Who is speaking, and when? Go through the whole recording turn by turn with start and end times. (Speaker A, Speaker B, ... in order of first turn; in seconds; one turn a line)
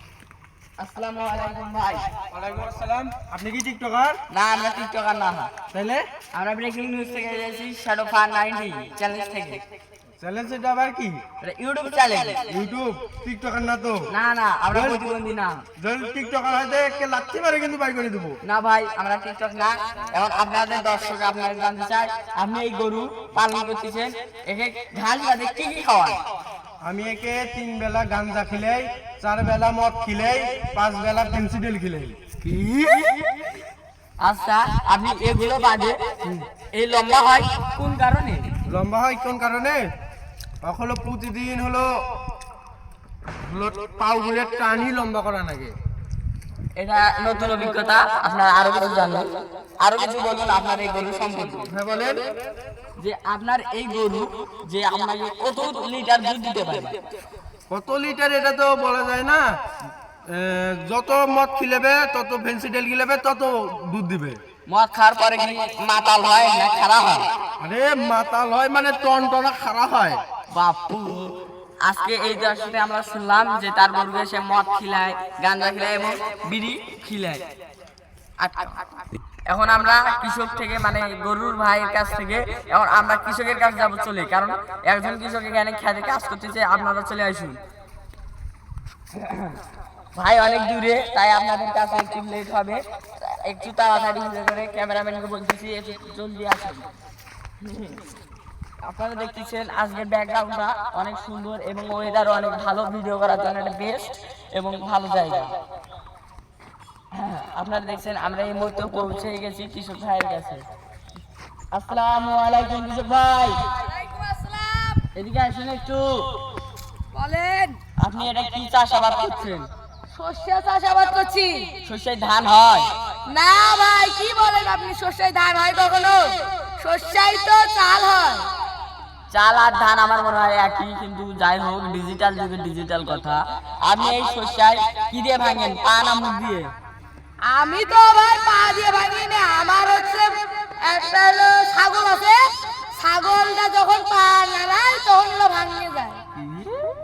Speaker A: 0.8-2.1
Speaker B: 2.3-4.2
Speaker A: 4.3-5.5
Speaker B: 5.7-6.0
Speaker A: 6.3-9.6
Speaker B: 10.2-11.2
Speaker A: 11.4-12.4
Speaker B: 12.5-14.0
Speaker A: 14.1-15.6
Speaker B: 14.7-15.0
Speaker B: 15.8-18.4
Speaker A: 18.4-26.2
Speaker B: 26.8-32.4
Speaker A: 32.5-33.0
Speaker A: 34.2-36.0
Speaker A: 36.7-38.5
Speaker B: 38.7-39.8
Speaker B: 40.6-41.9
Speaker B: 43.3-45.7
Speaker A: 46.7-49.3
Speaker A: 49.8-51.7
Speaker B: 51.7-52.2
Speaker A: 53.0-57.0
Speaker B: 57.7-59.5
Speaker B: 60.3-64.4
Speaker A: 64.7-67.3
Speaker B: 67.6-70.2
Speaker A: 70.5-77.4
Speaker A: 78.4-78.8
Speaker A: 79.5-87.6
Speaker A: 89.1-89.6
Speaker A: 90.1-96.9
Speaker A: 97.6-98.0
Speaker A: 98.8-105.5
Speaker A: 107.1-110.7
Speaker A: 111.7-113.7
Speaker C: 113.8-115.0
Speaker A: 115.1-116.3
Speaker C: 117.1-117.8
Speaker A: 118.0-119.7
Speaker C: 120.1-121.7
Speaker A: 121.8-122.9
Speaker C: 123.2-128.5
Speaker A: 129.3-136.7
Speaker C: 137.4-146.2